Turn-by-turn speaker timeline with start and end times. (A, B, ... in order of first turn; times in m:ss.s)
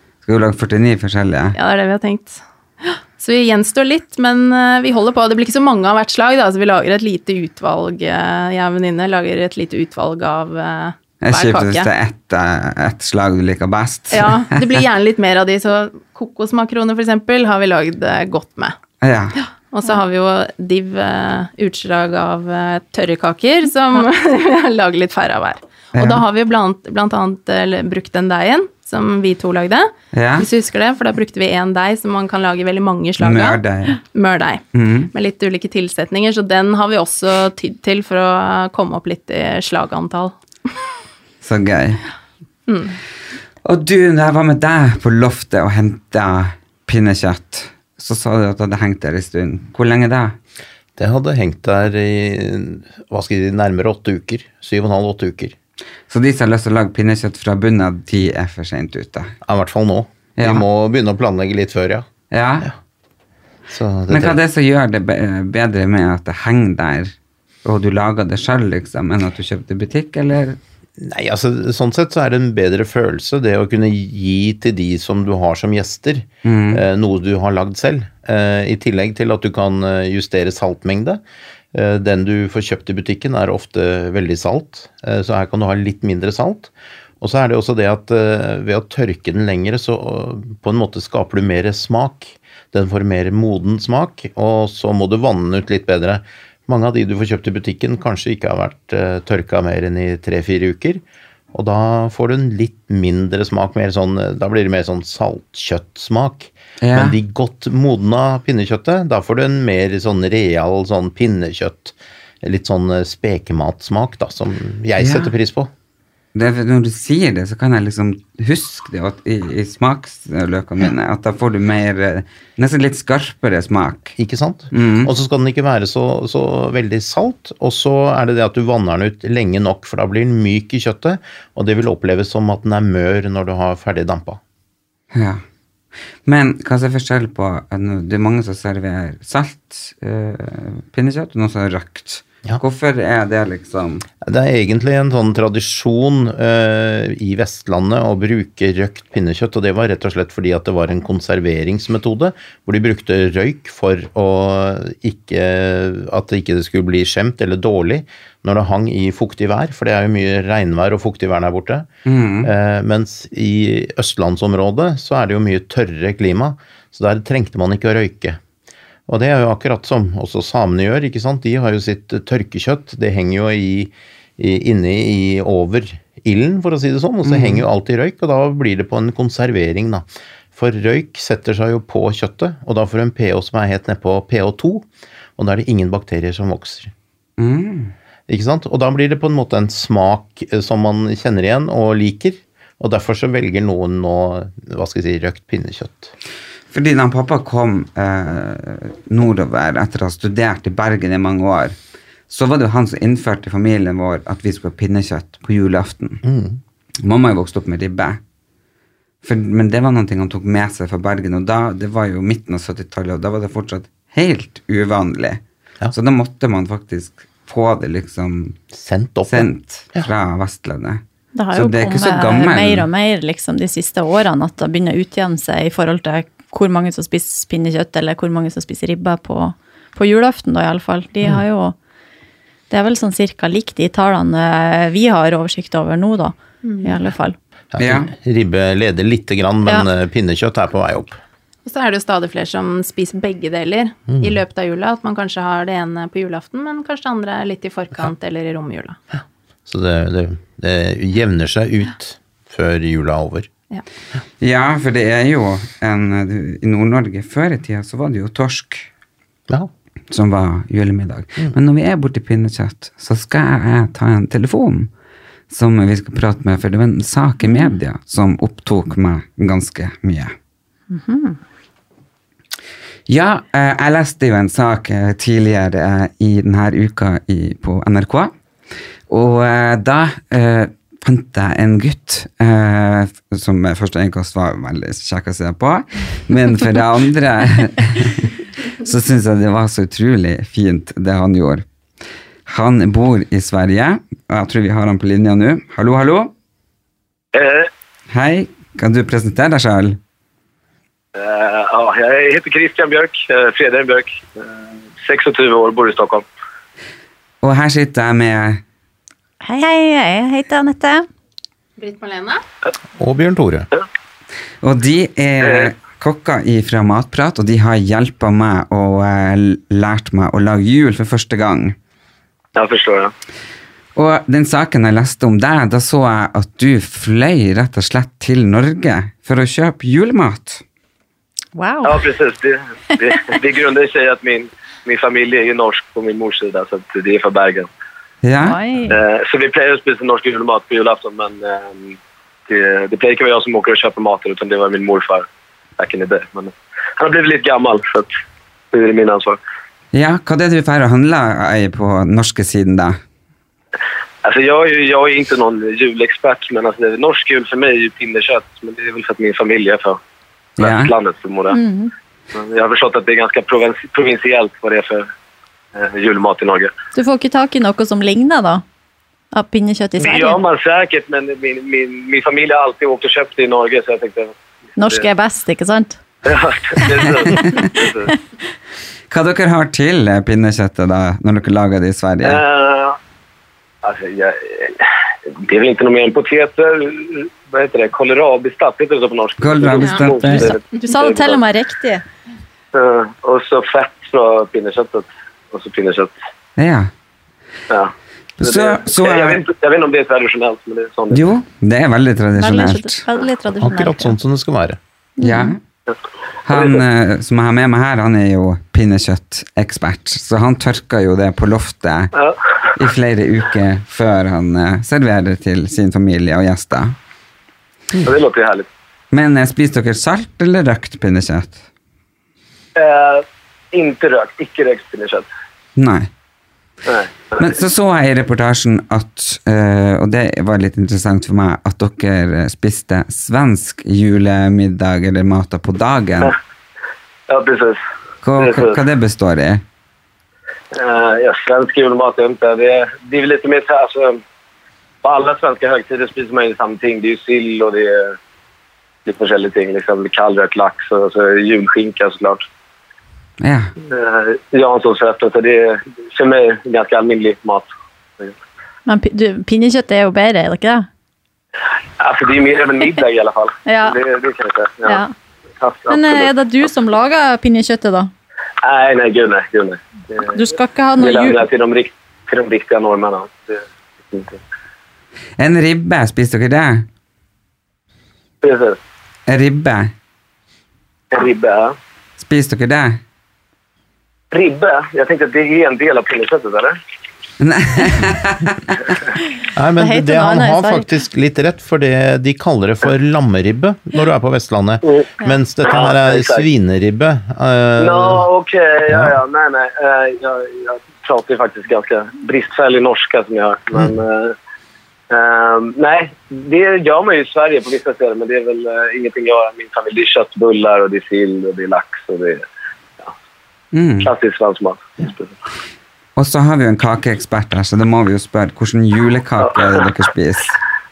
0:00.3-0:01.6 A
0:01.6-0:11.9 B
0:11.2-0:14.6 A
0:14.1-0:18.8 B
0:19.0-0:19.4 A
0:19.4-0:40.3 B
0:26.0-0:26.2 A
0:30.1-0:30.5 A
0:33.2-0:34.0 A
0:34.8-0:35.1 A
0:41.4-0:42.0 A
0:42.7-0:43.0 B
0:43.6-0:50.4 A
0:51.0-0:55.6 C
0:56.1-0:59.4 A
0:59.4-1:02.1 C
1:00.4-1:00.6 A
1:02.3-1:02.7 A
1:03.7-1:04.4 C
1:04.1-1:10.6 A
1:11.0-1:21.2 C
1:16.4-1:16.8 A
1:21.7-1:41.0 C
1:41.5-1:55.7 C
1:46.8-1:47.2 A
1:55.0-1:55.3 A
1:56.3-2:04.2 A
2:04.2-2:14.4 C
2:04.7-2:05.1 A
2:15.1-2:15.4 A
2:16.2-2:24.1 A
2:24.2-2:41.9 C
2:42.1-2:42.5 A
2:42.4-2:48.4 C
2:49.1-3:04.9 C
2:57.2-2:57.6 A
3:05.4-3:06.9 C
3:07.4-3:07.9 A
3:08.3-3:16.1 C
3:16.7-3:21.8 A
3:22.3-3:26.2 A
3:26.2-3:26.6 C
3:27.0-3:28.2 A
3:29.2-3:35.4 A
3:35.9-3:38.6 A
3:38.7-3:40.1 C
3:39.3-3:41.0 A
3:41.4-3:51.8 D
3:41.5-3:42.9 A
3:52.7-3:57.4 D
3:56.6-3:57.0 B
3:57.7-4:01.2 C
3:57.8-3:58.1 A
4:01.7-4:09.0 B
4:04.1-4:04.4 C
4:09.1-4:13.5 C
4:14.4-4:18.9 A
4:20.1-4:24.9 A
4:25.5-4:30.3 A
4:30.9-4:31.4 D
4:33.1-4:38.3 A
4:39.1-4:51.6 A
4:52.5-4:56.3 A
4:57.3-4:57.7 E
4:58.1-5:00.0 A
5:01.2-5:04.5 E
5:05.0-5:06.3 E
5:07.4-5:08.6 A
5:09.4-5:11.1 D
5:11.8-5:12.4 B
5:13.0-5:13.7 C
5:14.6-5:21.8 A
5:22.6-5:23.1 E
5:24.0-5:30.6 A
5:31.6-5:32.1 D
5:31.8-5:37.7 E
5:38.2-5:38.6 A
5:38.4-5:39.0 D
5:38.9-5:45.3 E
5:45.8-5:48.1 E
5:48.7-5:49.4 E
5:49.9-5:53.0 A
5:54.2-6:00.0 E
6:00.6-6:00.9 A
6:00.6-6:01.6 E
6:01.5-6:01.9 D
6:02.3-6:05.1 E
6:05.8-6:06.7 E
6:06.9-6:08.6 D
6:09.3-6:10.4 D
6:10.0-6:15.0 E
6:14.8-6:16.0 D
6:16.2-6:18.1 E
6:19.1-6:22.4 A
6:22.2-6:23.0 E
6:23.8-6:24.8 E
6:25.4-6:31.4 E
6:29.4-6:30.6 A
6:30.3-6:32.0 D
6:32.7-6:36.2 E
6:36.6-6:36.9 A
6:37.7-6:41.2 E
6:38.4-6:39.4 A
6:41.1-6:43.0 A
6:42.4-6:44.2 D
6:43.6-6:44.8 C
6:45.2-6:45.6 D
6:45.2-6:45.6 A
6:46.5-6:52.1 A
6:46.5-6:46.8 E
6:52.8-6:57.0 A
6:58.0-6:58.7 E
6:59.1-7:01.6 A
7:02.8-7:05.3 E
7:05.8-7:06.1 A
7:06.9-7:07.4 E
7:07.4-7:16.4 A
7:17.3-7:17.8 E
7:18.2-7:19.6 A
7:18.4-7:18.8 E
7:20.7-7:24.2 E
7:25.0-7:28.2 E
7:29.0-7:32.5 E
7:33.4-7:33.7 A
7:33.9-7:38.3 E
7:38.9-7:40.9 D
7:42.0-7:45.0 E
7:43.7-7:44.0 D
7:44.9-7:45.1 D
7:45.6-7:46.3 E
7:45.9-7:48.1 D
7:48.6-7:50.4 E
7:50.3-7:51.5 D
7:51.0-7:54.4 E
7:55.4-7:56.9 A
7:58.4-7:58.8 E
7:59.3-7:59.9 A
8:01.1-8:01.8 E
8:02.2-8:03.0 A
8:04.3-8:06.8 E
8:07.4-8:08.7 A
8:09.6-8:18.2 C
8:09.8-8:10.9 D
8:15.6-8:16.5 E
8:17.8-8:24.4 E
8:25.1-8:32.4 E
8:33.7-8:34.1 A
8:34.0-8:35.4 E
8:36.2-8:40.6 A
8:39.5-8:39.8 E